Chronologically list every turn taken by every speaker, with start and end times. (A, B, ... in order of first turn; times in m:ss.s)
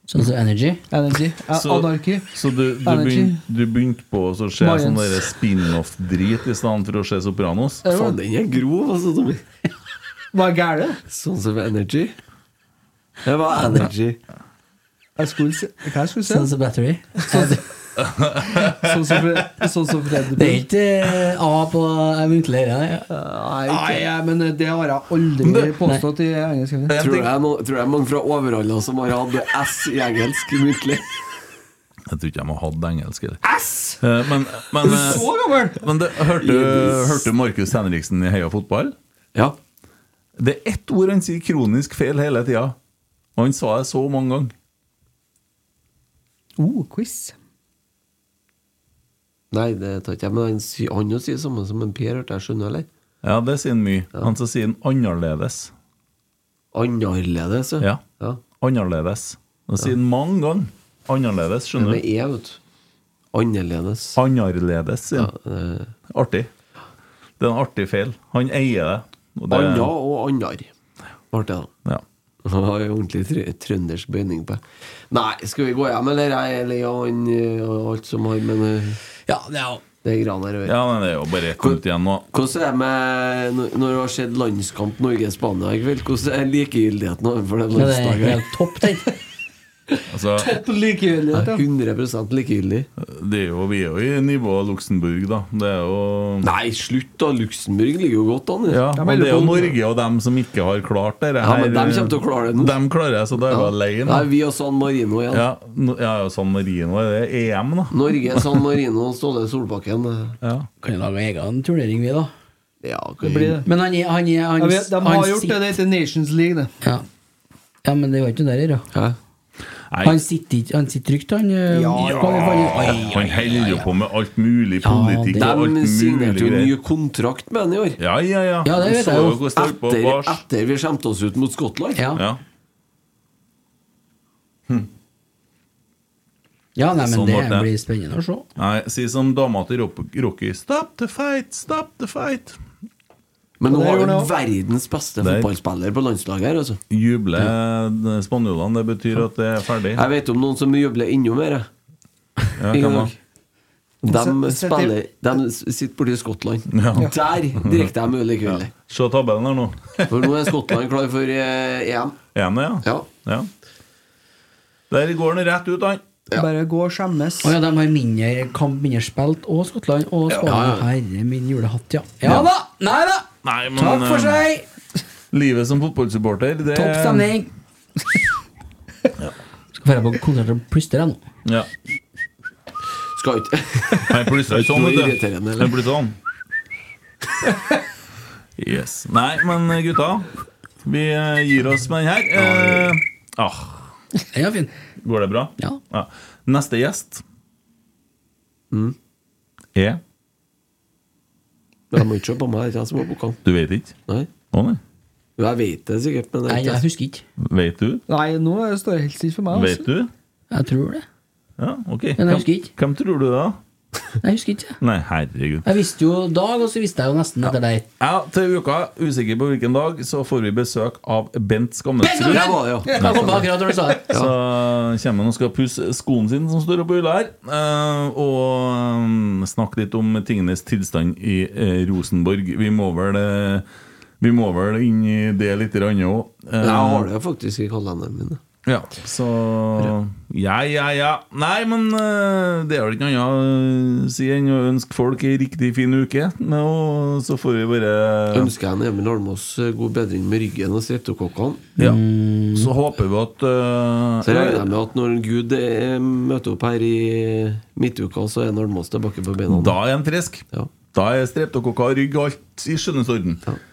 0:00.1-0:00.8 A
0:00.9-0:02.3 B
0:01.5-0:07.8 C
0:02.8-0:03.4 B
0:04.6-0:05.3 B
0:07.8-0:08.2 B
0:07.9-0:09.4 D
0:10.3-0:11.0 B
0:11.1-0:12.2 D
0:13.2-0:14.2 D
0:15.2-0:16.5 B
0:16.3-0:17.6 A
0:18.0-0:18.9 C
0:18.6-0:20.6 B
0:20.4-0:23.1 A
0:23.2-0:27.0 B
0:23.4-0:24.0 D
0:25.4-0:25.8 C
0:25.8-0:26.0 A
0:26.9-0:27.3 C
0:27.0-0:31.2 D
0:32.1-0:33.4 C
0:33.4-0:34.0 B
0:34.0-0:39.0 C
0:34.8-0:35.8 B
0:36.4-0:37.3 D
0:40.4-0:42.8 C
0:43.4-0:44.5 C
0:46.6-0:47.4 B
0:49.5-0:52.9 D
0:53.2-0:55.7 C
0:56.7-0:58.4 D
0:58.6-1:02.0 C
1:01.8-1:02.6 D
1:03.3-1:04.2 D
1:04.2-1:05.3 C
1:05.2-1:05.9 D
1:06.1-1:06.5 C
1:07.4-1:09.9 C
1:09.5-1:10.7 D
1:11.3-1:11.7 D
1:12.4-1:19.0 D
1:19.3-1:19.8 A
1:20.0-1:20.8 D
1:20.7-1:22.3 C
1:21.6-1:28.5 D
1:27.8-1:29.1 A
1:30.1-1:30.6 C
1:30.4-1:31.6 B
1:31.3-1:32.9 D
1:33.0-1:36.5 C
1:36.4-1:38.8 D
1:38.7-1:44.3 C
1:39.0-1:39.8 B
1:41.4-1:42.8 D
1:43.5-1:45.4 D
1:45.3-1:48.5 C
1:47.9-1:50.4 D
1:50.4-1:50.7 C
1:50.8-1:52.3 A
1:52.8-1:53.6 D
1:53.2-1:53.7 B
1:53.6-1:55.7 A
1:54.6-1:56.7 B
1:57.8-1:58.8 A
1:59.9-2:00.2 C
2:00.0-2:03.9 A
2:01.7-2:02.9 B
2:02.0-2:06.7 C
2:04.8-2:05.5 A
2:05.4-2:08.0 D
2:08.0-2:10.4 C
2:08.6-2:09.4 A
2:08.8-2:12.0 D
2:12.0-2:12.2 A
2:12.1-2:12.4 C
2:16.8-2:18.5 A
2:17.0-2:17.7 C
2:18.6-2:22.6 C
2:23.6-2:26.8 D
2:23.6-2:24.3 B
2:25.2-2:25.5 C
2:26.9-2:30.0 C
2:30.0-2:31.7 D
2:32.6-2:33.1 C
2:32.7-2:33.2 D
2:34.0-2:38.7 D
2:34.1-2:35.0 B
2:36.7-2:37.9 C
2:38.5-2:40.5 C
2:40.1-2:42.2 D
2:42.4-2:43.5 C
2:42.8-2:43.1 D
2:44.9-2:46.0 C
2:46.4-2:47.6 B
2:47.4-2:54.6 A
2:50.3-2:50.9 D
2:52.2-2:52.5 C
2:53.4-2:54.4 C
2:55.3-2:57.3 C
2:56.7-2:57.5 A
2:59.8-3:01.2 A
3:03.2-3:05.8 D
3:04.1-3:06.2 C
3:08.6-3:10.3 C
3:10.8-3:13.9 C
3:14.3-3:14.7 A
3:15.0-3:17.2 C
3:19.8-3:20.0 C
3:21.9-3:23.4 D
3:23.4-3:24.0 C
3:24.5-3:24.8 C
3:25.4-3:26.8 D
3:26.5-3:27.2 A
3:27.4-3:28.0 C
3:28.1-3:29.9 B
3:29.5-3:30.1 C
3:30.5-3:31.0 A
3:31.6-3:33.6 C
3:32.2-3:32.7 A
3:34.2-3:34.8 A
3:34.8-3:35.7 C
3:35.6-3:37.9 A
3:38.0-3:43.4 C
3:42.0-3:44.1 A
3:42.2-3:43.5 D
3:44.1-3:53.7 C
3:54.2-3:57.1 C
3:56.6-3:58.4 D
3:58.6-4:08.5 C
4:08.3-4:11.7 D
4:11.8-4:12.7 A
4:12.5-4:14.7 C
4:14.2-4:19.8 D
4:19.5-4:23.4 C